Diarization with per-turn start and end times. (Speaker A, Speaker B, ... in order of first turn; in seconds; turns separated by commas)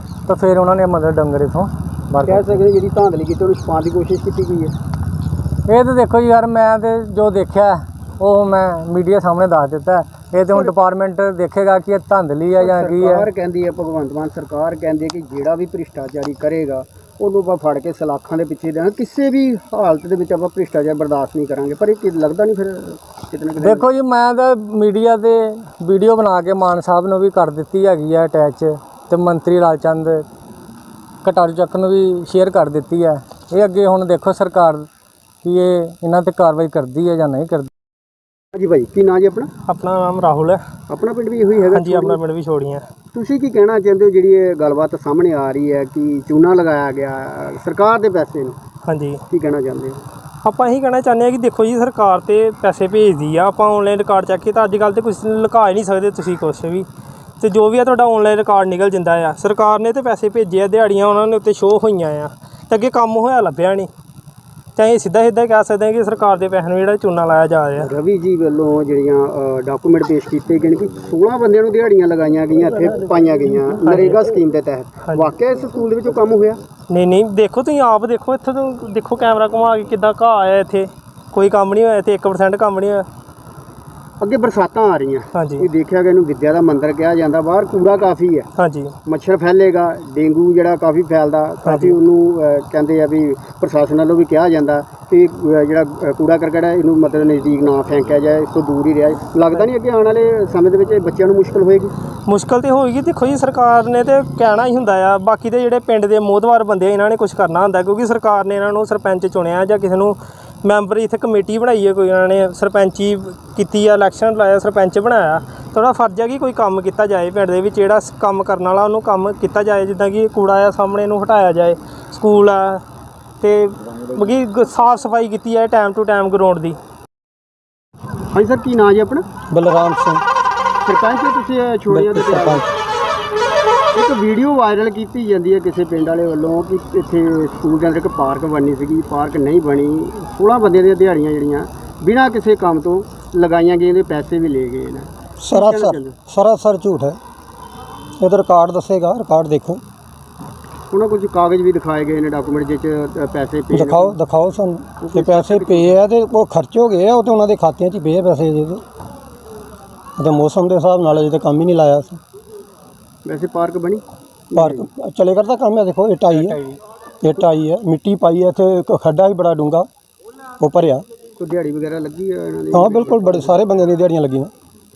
Speaker A: 0.3-2.6, Speaker B: 2.2-4.7, Speaker A: 5.7-13.3, Speaker B: 12.6-23.9, Speaker A: 23.6-30.2, Speaker A: 31.2-34.9, Speaker A: 35.4-37.7, Speaker B: 38.5-39.5, Speaker C: 39.7-40.6, Speaker B: 40.9-42.2, Speaker C: 41.7-42.8, Speaker B: 43.1-48.6, Speaker C: 48.8-49.2, Speaker B: 49.3-50.0, Speaker C: 50.4-56.9, Speaker C: 57.4-63.9, Speaker C: 64.8-67.9, Speaker B: 67.8-76.6, Speaker C: 73.8-74.2, Speaker C: 76.9-83.1, Speaker B: 84.2-88.5, Speaker C: 85.3-85.7, Speaker C: 88.6-88.9, Speaker B: 89.0-101.9, Speaker C: 91.6-92.0, Speaker C: 102.3-122.8, Speaker C: 123.4-126.8, Speaker B: 128.3-129.2, Speaker D: 129.5-130.2, Speaker B: 130.8-132.7, Speaker D: 131.9-132.6, Speaker B: 133.9-146.2, Speaker D: 145.4-147.2, Speaker D: 148.2-149.8, Speaker B: 150.9-154.2, Speaker D: 153.7-158.8, Speaker B: 155.0-155.9, Speaker D: 160.2-162.2, Speaker B: 163.2-164.0, Speaker B: 164.5-164.8, Speaker D: 164.5-169.9, Speaker D: 170.6-171.0, Speaker B: 171.4-173.6, Speaker D: 172.7-174.5